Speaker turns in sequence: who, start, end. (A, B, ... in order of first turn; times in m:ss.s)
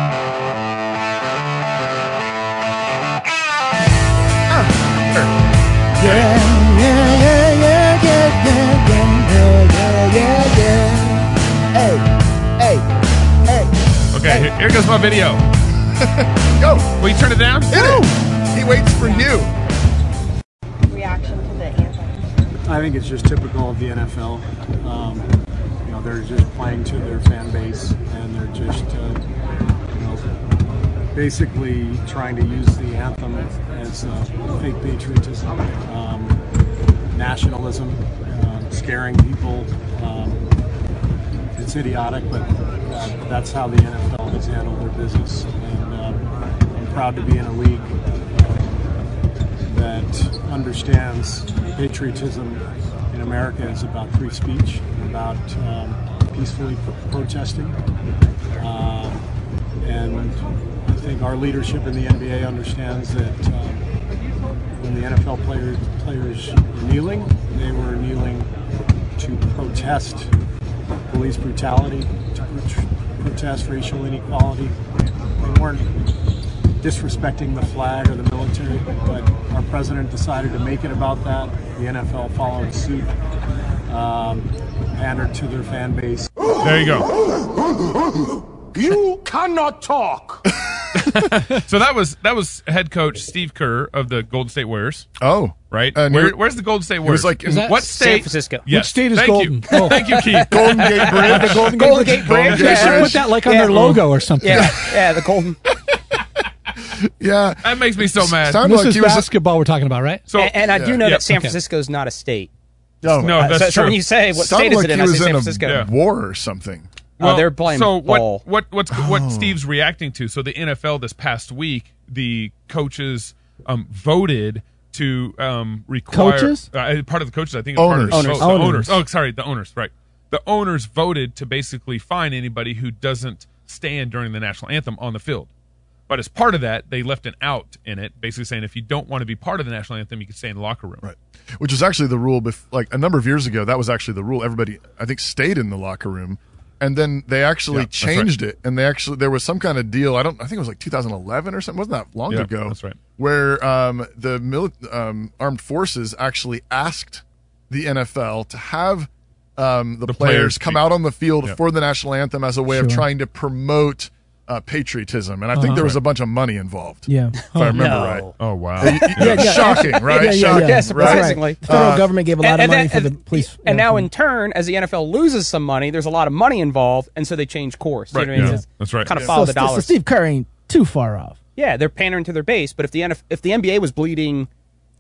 0:06.0-0:12.1 A
0:06.0-0:06.3 B
0:12.6-0:12.8 A
0:13.4-0:13.7 A
0:14.1-0:15.4 B
0:16.0-0:16.9 C
0:17.0-0:17.8 B
0:17.7-0:19.5 C
0:17.7-0:18.1 A
0:18.9-0:19.5 D
0:20.8-0:22.4 D
0:22.6-0:25.3 E
0:25.8-0:29.2 E
0:29.9-0:30.3 E
0:31.1-0:36.4 E
0:37.1-0:40.4 E
0:41.5-0:49.0 E
0:49.7-0:57.8 E
0:58.6-0:59.2 E
0:59.8-1:03.8 E
1:04.7-1:08.5 E
1:09.2-1:10.3 E
1:11.1-1:14.8 E
1:15.4-1:15.9 E
1:16.8-1:23.1 E
1:23.9-1:26.5 E
1:26.6-1:27.1 B
1:30.9-1:35.1 B
1:35.2-1:36.4 C
1:35.7-1:41.4 B
1:37.0-1:37.8 C
1:37.4-1:37.8 F
1:37.9-1:38.6 G
1:38.7-1:44.7 F
1:39.9-1:45.6 G
1:40.5-1:43.3 C
1:44.4-1:45.0 C
1:46.8-1:49.3 C
1:47.6-1:48.6 B
1:48.6-1:50.2 F
1:50.3-1:51.2 B
1:50.3-1:52.5 G
1:50.7-1:51.0 C
1:51.2-1:51.5 F
1:53.0-1:53.8 C
1:53.1-1:54.0 B
1:53.2-1:55.8 G
1:54.3-1:56.9 C
1:57.2-2:15.5 B
1:57.2-1:58.4 G
1:58.9-1:59.6 C
2:06.1-2:06.7 A
2:07.8-2:08.6 C
2:08.1-2:08.6 G
2:08.4-2:09.0 A
2:16.1-2:21.0 B
2:21.0-2:52.1 C
2:27.7-2:28.3 B
2:32.3-2:33.0 B
2:40.1-2:40.8 B
2:42.7-2:43.0 A
2:45.5-2:45.9 F
2:47.1-2:47.4 A
2:47.5-2:47.9 F
2:47.7-2:48.3 G
2:48.4-2:49.7 B
2:48.8-2:54.1 A
2:49.8-2:59.9 G
2:58.1-2:58.6 C
2:58.3-2:59.1 B
2:59.2-3:01.4 A
3:01.6-3:04.5 G